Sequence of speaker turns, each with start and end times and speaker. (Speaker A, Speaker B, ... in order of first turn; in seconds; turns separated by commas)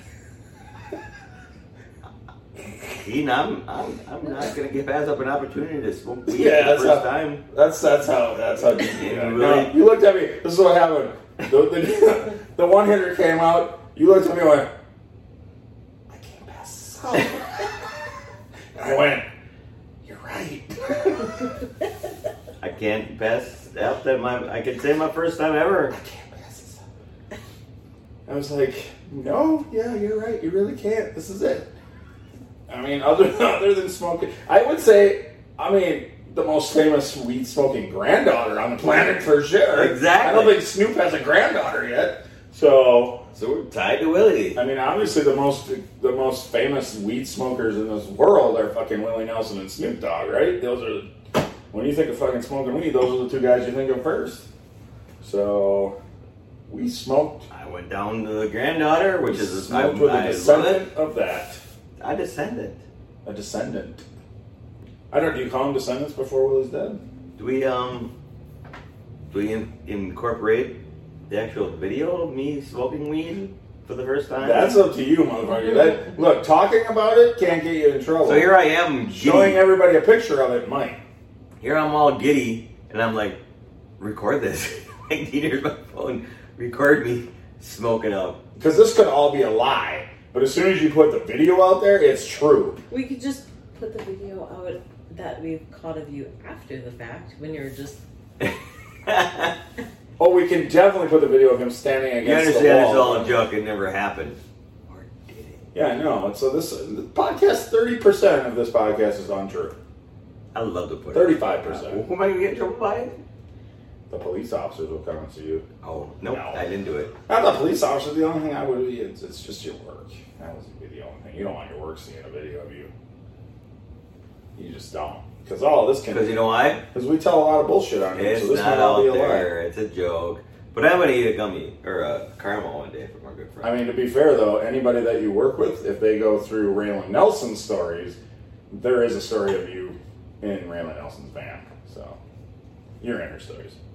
Speaker A: 2.8-7.4, Speaker B: 6.3-14.7, Speaker A: 8.8-9.8, Speaker B: 16.1-17.9, Speaker B: 18.7-19.3, Speaker B: 20.0-21.4, Speaker A: 22.6-26.0, Speaker B: 25.9-26.8, Speaker B: 28.3-31.7, Speaker B: 32.7-43.3, Speaker A: 39.7-40.6, Speaker A: 43.3-44.6, Speaker B: 44.6-54.5, Speaker B: 55.2-56.0, Speaker B: 56.7-57.5, Speaker A: 57.5-60.9, Speaker B: 59.3-61.6, Speaker A: 62.0-62.8, Speaker B: 63.2-64.0, Speaker B: 65.1-67.0, Speaker A: 67.4-68.1, Speaker A: 69.3-74.8, Speaker B: 74.4-81.0, Speaker A: 78.2-79.7, Speaker A: 81.6-83.4, Speaker A: 84.0-88.4, Speaker B: 88.6-92.8, Speaker C: 92.9-98.0, Speaker A: 98.4-99.5, Speaker B: 100.2-103.5, Speaker A: 102.2-105.7, Speaker B: 105.7-109.8, Speaker A: 110.5-113.2, Speaker B: 111.1-112.0, Speaker B: 114.1-115.7, Speaker A: 115.8-117.1, Speaker B: 116.3-116.6, Speaker B: 117.3-122.9, Speaker B: 124.6-126.4, Speaker A: 126.1-126.9, Speaker B: 126.9-129.5, Speaker A: 128.2-133.8, Speaker B: 133.6-138.2, Speaker B: 138.7-142.2, Speaker B: 143.0-143.8